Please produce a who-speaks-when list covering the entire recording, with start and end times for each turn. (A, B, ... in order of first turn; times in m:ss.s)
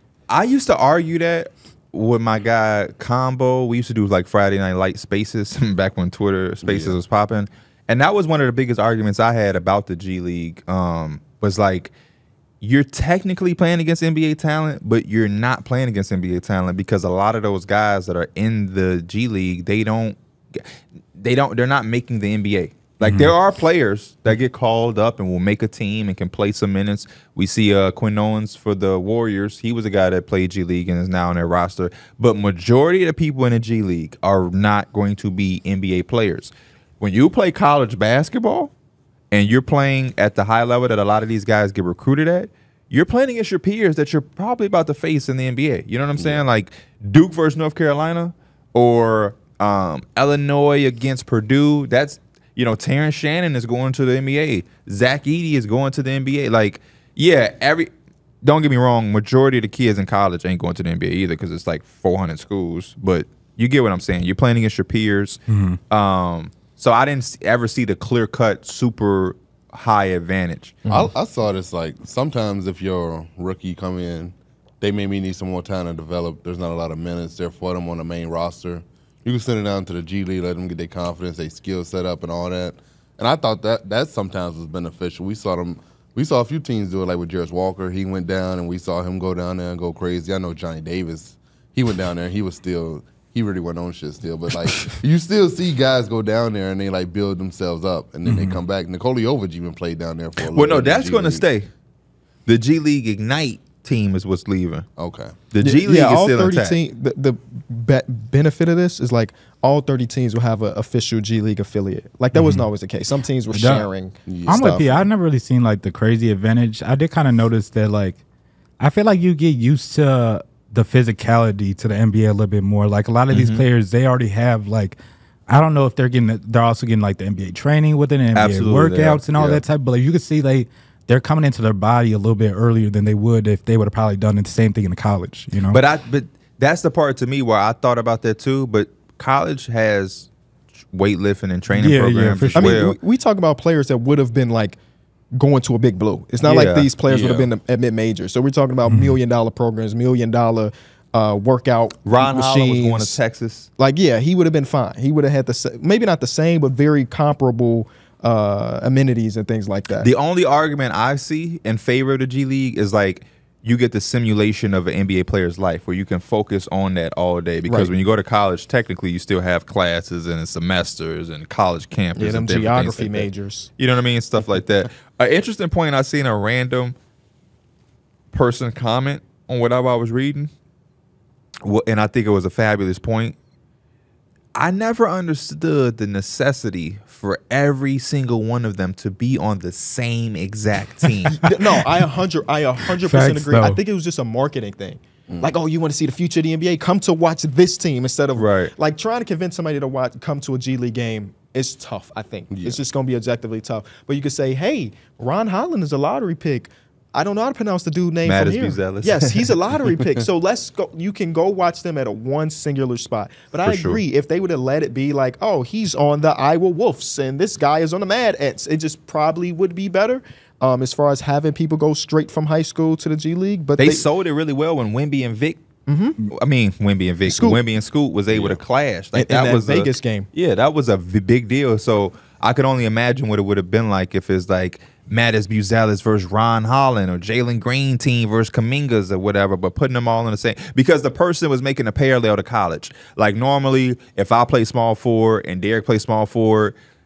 0:00.3-0:11.9 A
0:06.6-0:07.0 B
0:12.6-0:38.7 A
0:23.0-0:23.3 C
0:39.3-0:57.9 A
0:46.2-0:46.4 B
0:58.4-1:10.8 A
1:05.5-1:05.8 C
1:10.9-1:41.5 B
1:38.2-1:38.6 C
1:40.4-1:41.7 A
1:42.4-1:44.9 A
1:45.0-1:45.3 B
1:45.5-1:46.8 A
1:45.6-1:54.9 D
1:52.3-1:52.6 C
1:53.5-1:53.9 C
1:54.3-1:55.0 B
1:54.5-1:58.2 C
1:58.8-2:05.0 C
2:03.3-2:03.6 A
2:05.5-2:15.8 C
2:08.3-2:09.6 A
2:15.7-2:20.3 A
2:20.9-2:23.0 A
2:21.7-2:22.8 C
2:22.5-2:24.8 D
2:25.3-2:33.2 D
2:26.4-2:26.9 A
2:27.1-2:27.5 B
2:28.9-2:29.2 C
2:32.0-2:33.7 A
2:33.8-2:40.1 D
2:40.0-2:56.9 A
2:47.6-2:47.9 D
2:52.2-2:53.7 D
2:58.3-3:00.5 A
3:01.6-3:03.3 A
3:04.5-3:11.5 A
3:11.3-3:44.0 D
3:13.0-3:13.8 C
3:18.4-3:18.7 A
3:22.5-3:22.8 B
3:28.2-3:29.5 A
3:33.6-3:34.0 A
3:43.8-3:45.6 A
3:45.9-3:46.2 D
3:46.3-4:06.7 A
3:47.2-3:47.6 D
3:48.3-3:48.6 B
3:49.1-3:50.3 D